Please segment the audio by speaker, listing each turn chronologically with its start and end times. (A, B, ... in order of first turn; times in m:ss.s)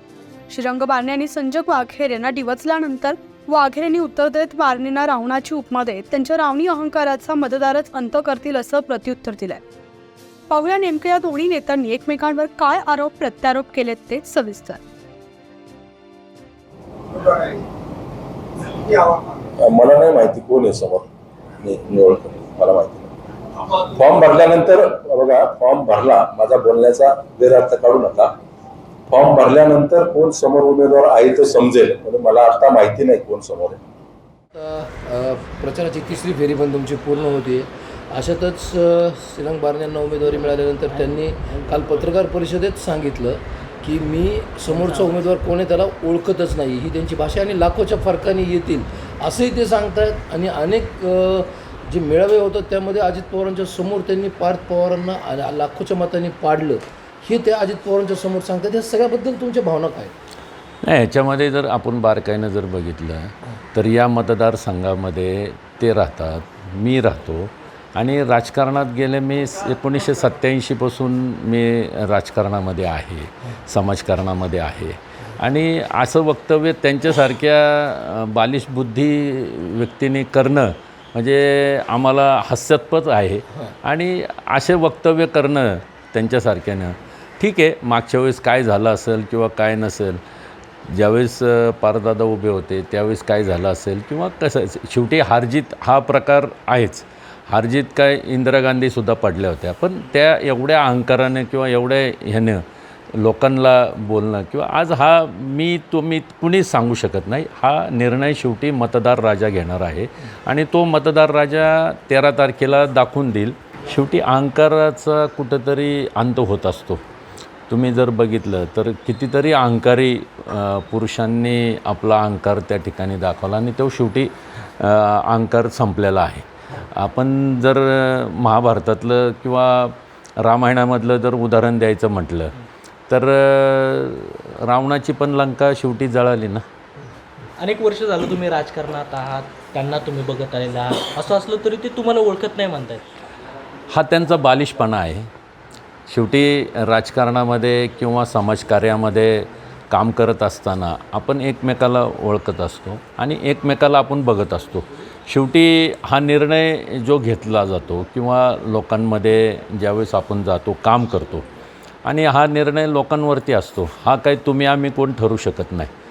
0:00.5-0:09.6 A
0:10.5-0:14.8 A
0:19.6-0:21.1 B
0:21.6-0:23.1 B
0:23.7-0:28.4 B
0:29.1-0:33.8 B
0:34.6-1:00.1 C
0:40.4-0:41.8 D
0:44.7-0:45.2 D
1:00.8-1:30.2 E
1:30.9-1:57.0 E
1:57.7-2:12.6 E
2:13.1-2:16.6 E
2:17.6-2:23.0 D
2:23.9-2:25.3 E
2:26.1-2:41.5 E
2:42.0-2:45.9 E